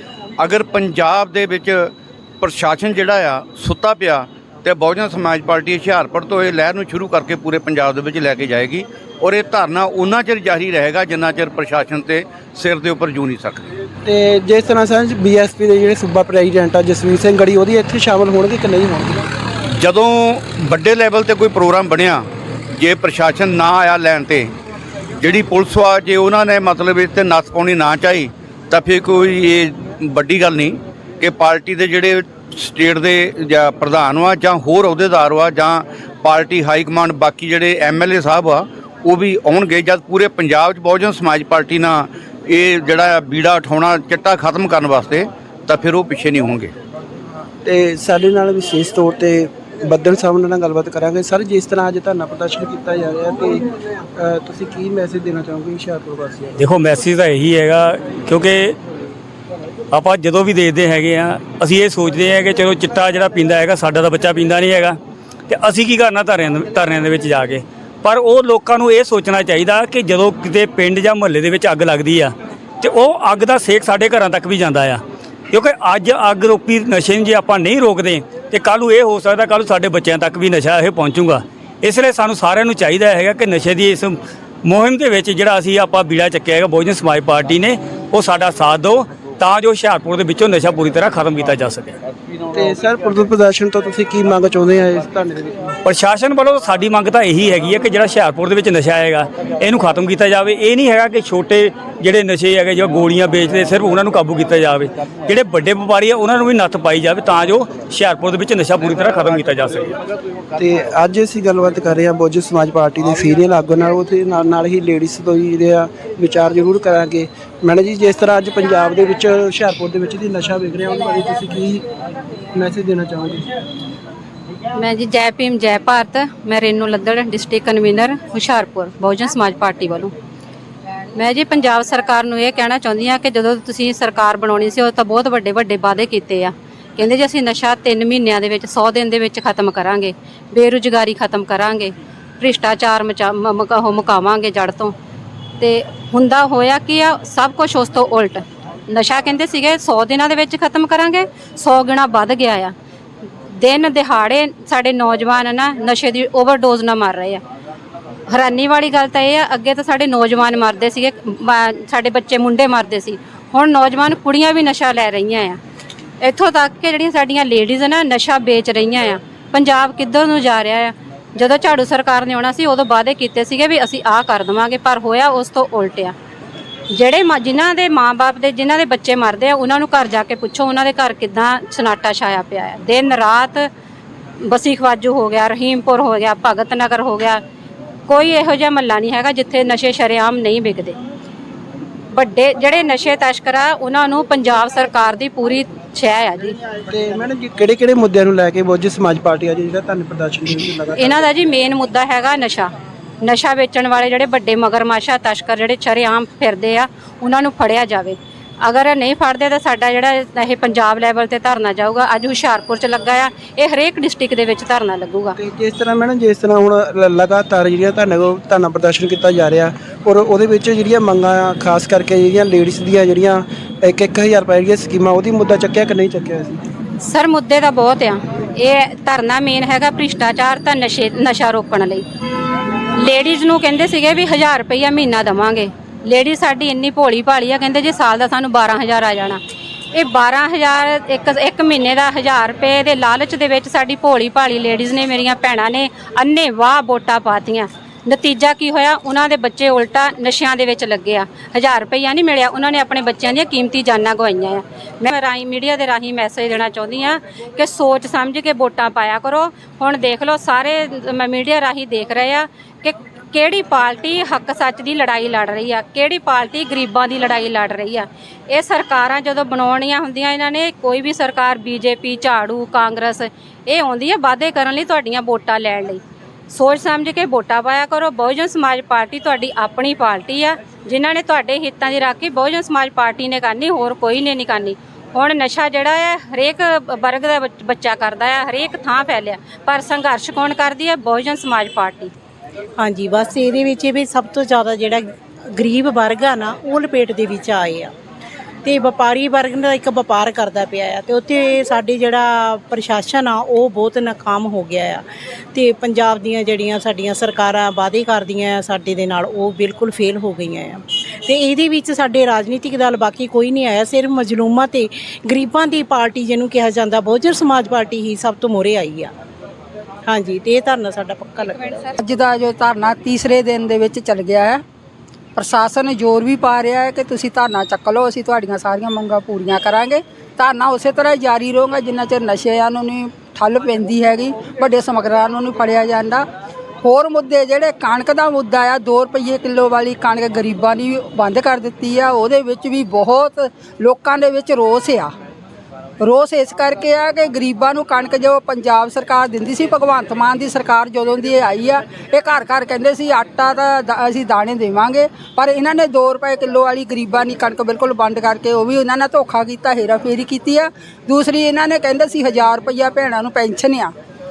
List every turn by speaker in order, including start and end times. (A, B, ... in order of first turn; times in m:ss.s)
0:00.4-0:13.7 A
0:14.0-0:19.2 B
0:19.8-0:24.5 A
0:25.2-0:46.7 A
0:47.6-0:53.6 B
0:54.2-0:56.6 B
0:56.6-0:58.8 C
0:59.9-1:32.0 C
1:32.5-1:35.7 B
1:35.8-1:49.9 C
1:50.5-2:01.8 B
2:02.5-2:03.5 B
2:04.8-2:10.1 D
2:11.1-2:24.9 D
2:25.6-2:32.7 D
2:33.5-2:37.4 D
2:38.3-2:45.6 D
2:46.2-2:56.1 D
2:56.9-3:03.6 D
3:04.4-3:07.4 D
3:08.1-3:11.0 D
3:12.1-3:16.6 D
3:16.9-3:21.3 B
3:20.9-3:35.4 D
3:35.4-3:46.6 B
3:47.0-3:52.0 D
3:53.0-3:59.4 D
3:59.9-4:52.1 D
4:52.8-4:57.9 E
4:58.6-5:19.1 E
5:20.1-5:21.9 E
5:22.0-5:24.6 F
5:25.4-5:36.2 F
5:36.8-5:45.1 F
5:46.0-6:03.9 F